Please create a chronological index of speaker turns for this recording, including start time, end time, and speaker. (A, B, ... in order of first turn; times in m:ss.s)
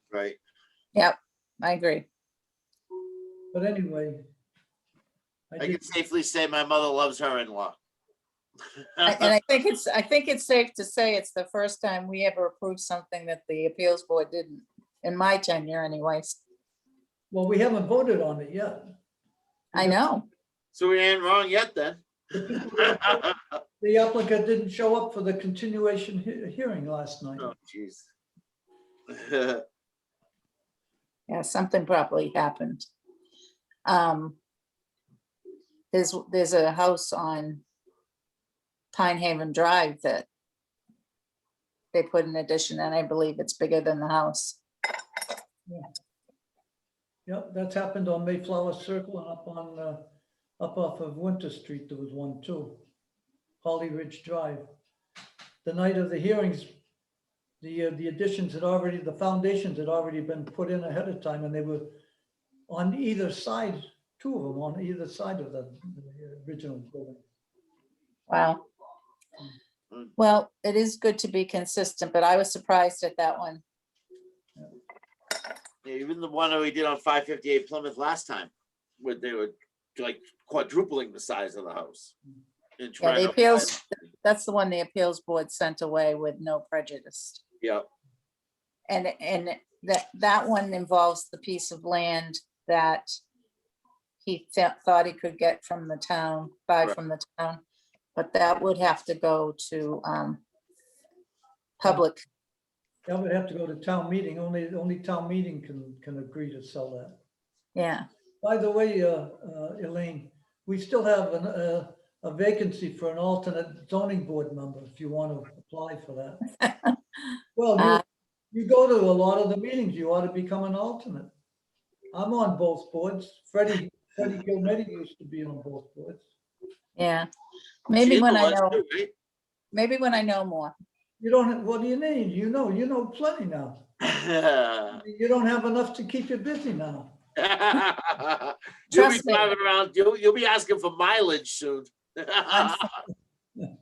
0:00.1-0:00.4 A
0:01.0-0:02.1 B
0:03.5-0:04.2 C
0:05.5-0:05.8 C
0:05.6-0:07.8 A
0:09.0-0:09.4 A
0:09.0-0:16.4 B
0:17.3-0:18.9 C
0:19.7-0:20.3 B
0:20.7-0:23.4 A
0:22.3-0:23.3 C
0:23.8-0:27.5 C
0:27.4-0:28.1 A
0:29.1-0:29.6 A
0:31.3-0:32.9 B
0:33.9-0:34.4 B
0:35.9-0:37.6 B
0:38.9-0:40.3 B
0:41.9-0:44.6 B
0:47.3-0:50.0 C
0:50.6-0:52.8 C
0:53.6-0:54.7 C
0:55.6-0:56.8 C
0:57.6-1:02.0 C
1:02.7-1:07.2 C
1:08.3-1:08.6 B
1:10.2-1:13.6 B
1:15.8-1:22.1 A
1:22.8-1:23.7 A
1:23.0-1:27.4 B
1:27.6-1:27.9 A
1:28.9-1:33.1 B
1:34.2-1:37.6 B
1:38.2-1:40.4 B
1:41.8-1:42.2 B
1:43.1-1:47.2 C
1:47.8-1:48.0 B
1:48.4-1:56.4 C
1:56.6-1:57.0 B
1:57.6-2:01.3 C
2:02.1-2:06.3 C
2:07.0-2:07.3 B
2:07.9-2:08.8 B
2:08.0-2:09.1 A
2:09.7-2:10.7 B
2:11.2-2:13.8 C
2:14.0-2:15.0 A
2:14.9-2:17.2 C
2:17.4-2:23.0 A
2:18.9-2:19.5 B